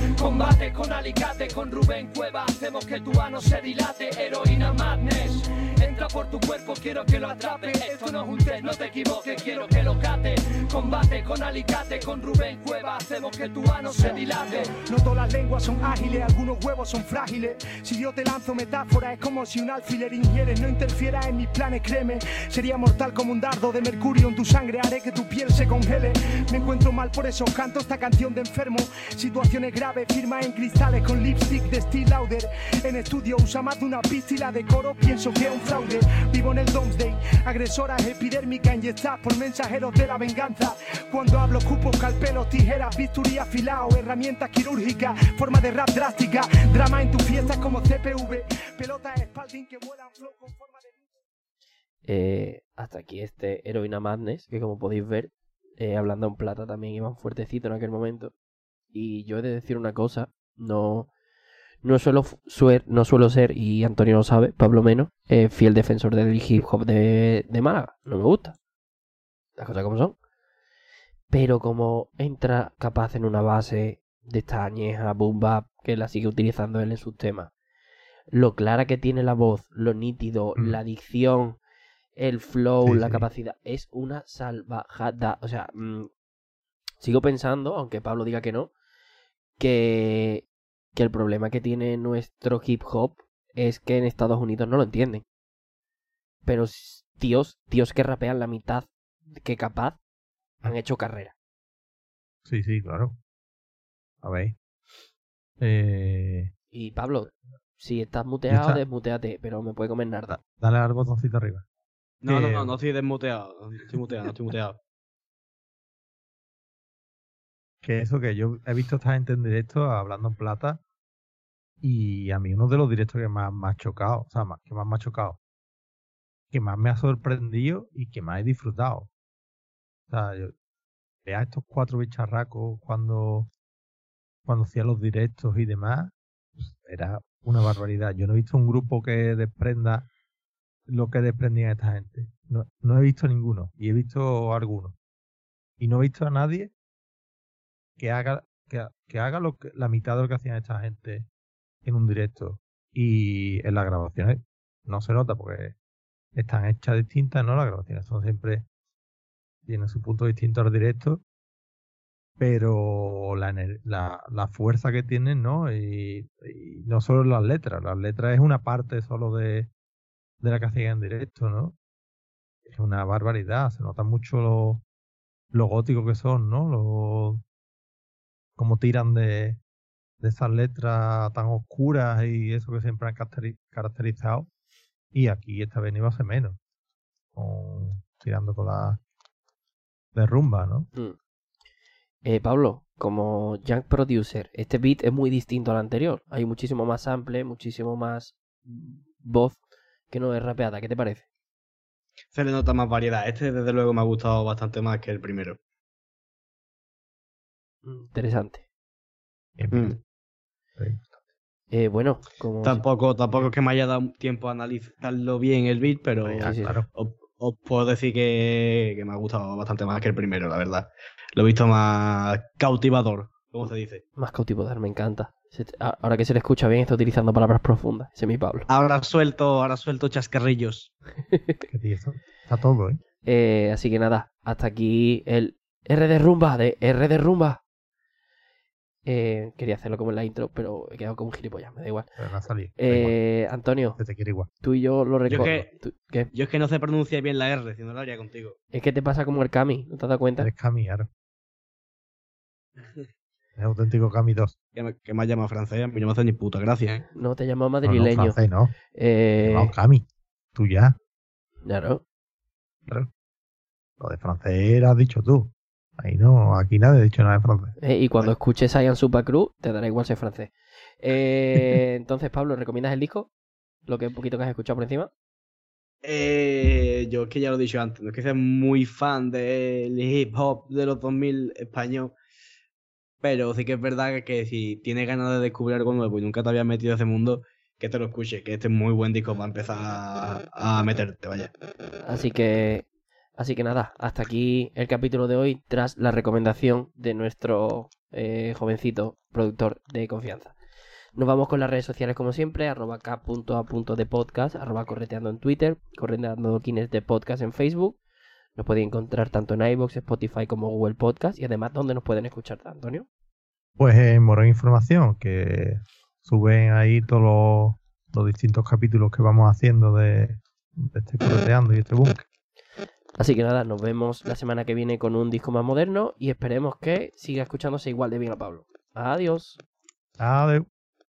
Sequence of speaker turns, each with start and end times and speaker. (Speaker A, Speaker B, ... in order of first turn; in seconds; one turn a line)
Speaker A: 0.2-0.5
Speaker B: 1.8-4.6
Speaker A: 5.8-6.1
Speaker B: 6.6-7.9
Speaker A: 7.1-8.1
Speaker B: 8.8-9.5
Speaker A: 13.9-51.1
Speaker C: 52.1-58.3
Speaker C: 58.9-61.1
Speaker C: 61.8-68.6
Speaker C: 69.6-70.1
Speaker C: 71.3-77.5
Speaker C: 78.3-81.6
Speaker C: 82.2-86.1
Speaker D: 82.8-83.3
Speaker C: 87.0-88.7
Speaker C: 89.6-95.2
Speaker C: 96.5-100.0
Speaker C: 100.6-101.3
Speaker D: 102.5-103.2
Speaker D: 104.2-104.5
Speaker D: 105.6-106.5
Speaker C: 106.7-110.4
Speaker D: 108.5-108.8
Speaker D: 110.3-111.6
Speaker E: 112.2-114.8
Speaker D: 112.3-112.7
Speaker D: 117.8-120.8
Speaker D: 121.8-125.4
Speaker D: 126.5-129.1
Speaker D: 130.1-130.6
Speaker D: 131.2-133.5
Speaker D: 134.5-140.1
Speaker D: 140.9-144.9
Speaker D: 145.8-146.7
Speaker D: 148.0-151.3
Speaker D: 151.8-155.8
Speaker D: 156.3-158.7
Speaker D: 159.6-161.2
Speaker D: 162.4-169.7
Speaker D: 170.4-171.8
Speaker D: 172.7-174.8
Speaker D: 175.5-177.4
Speaker D: 178.6-179.6
Speaker D: 180.2-184.5
Speaker D: 185.1-186.6
Speaker D: 187.3-189.0
Speaker D: 190.1-190.9
Speaker C: 192.2-199.6
Speaker C: 200.1-201.2
Speaker E: 202.3-205.6
Speaker C: 207.8-208.6
Speaker D: 209.6-210.0
Speaker E: 209.7-210.0
Speaker C: 211.7-212.9
Speaker E: 212.6-224.0
Speaker D: 216.2-216.9
Speaker C: 216.4-216.8
Speaker C: 224.2-228.7
Speaker E: 228.7-230.9
Speaker C: 231.3-231.6
Speaker D: 231.7-233.0
Speaker C: 233.2-237.6
Speaker C: 239.1-242.1
Speaker D: 242.2-243.2
Speaker C: 242.8-244.0
Speaker D: 244.0-244.5
Speaker C: 244.6-246.3
Speaker E: 245.3-245.7
Speaker E: 246.3-248.6
Speaker C: 248.7-250.5
Speaker D: 250.4-251.1
Speaker D: 253.6-254.6
Speaker E: 254.8-257.1
Speaker C: 257.1-258.4
Speaker D: 257.9-258.7
Speaker C: 258.9-259.7
Speaker D: 259.4-261.0
Speaker C: 261.6-262.0
Speaker D: 264.0-268.3
Speaker C: 267.8-273.3
Speaker C: 273.9-275.1
Speaker E: 276.0-282.1
Speaker E: 283.2-291.5
Speaker C: 292.1-292.9
Speaker C: 293.4-300.5
Speaker C: 301.1-308.0
Speaker C: 308.6-313.1
Speaker D: 313.8-322.3
Speaker C: 323.2-329.6
Speaker D: 330.2-330.7